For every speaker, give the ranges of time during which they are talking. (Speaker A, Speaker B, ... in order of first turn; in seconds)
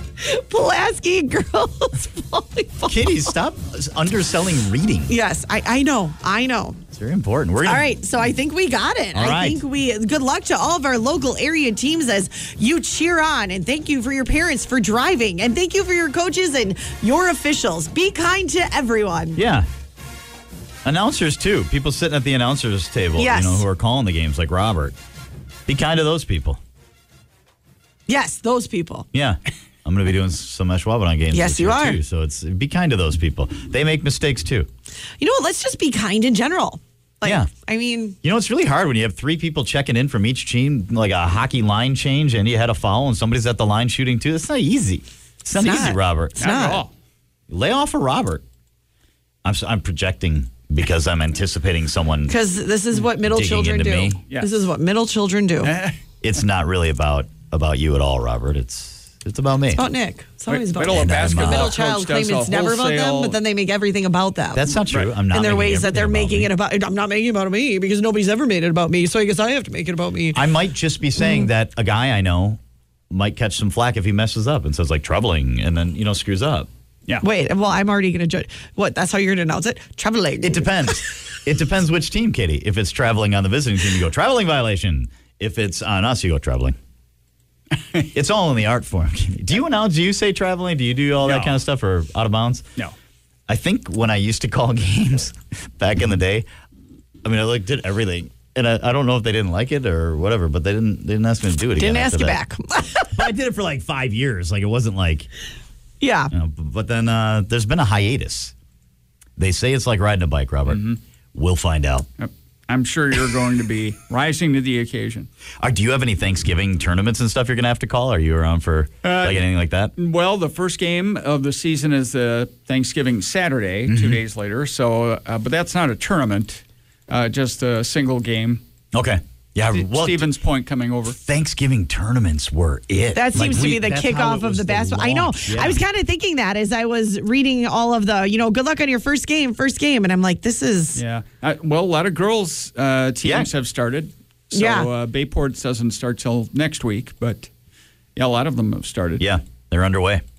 Speaker A: 0.2-3.2, 5.1-6.8, 7.6-19.4, 23.2-23.6, 28.1-29.1, 31.3-32.0, 35.2-38.1, 45.5-46.8, 52.3-55.7, 59.7-64.8, 65.3-70.4, 77.2-80.7, 101.8-103.3, 106.0-106.3, 133.1-141.0, 144.5-144.9
Speaker B: 2.9-5.1, 6.9-7.9, 9.1-9.6, 19.4-19.7, 20.8-24.9, 25.7-26.6, 29.1-34.7, 37.2-37.5, 38.2-46.5, 47.5-48.4, 49.4-52.4, 53.1-54.2, 56.2-59.8, 60.9-61.7, 64.5-66.5, 70.3-72.6, 73.1-76.7, 80.4-86.8, 88.1-92.7, 93.5-96.5, 97.2-102.4, 103.1-105.3, 106.3-108.5, 109.4-110.8, 111.3-112.0, 115.6-119.9, 123.9-124.2, 128.9-130.2, 131.1-135.8, 143.2-143.5, 149.2-150.2
Speaker C: 46.4-46.9, 55.6-56.0, 60.5-63.4, 91.2-91.6, 110.7-111.0, 112.2-115.3, 119.0-119.4, 120.0-128.6, 129.7-131.2, 140.9-147.5, 148.2-149.3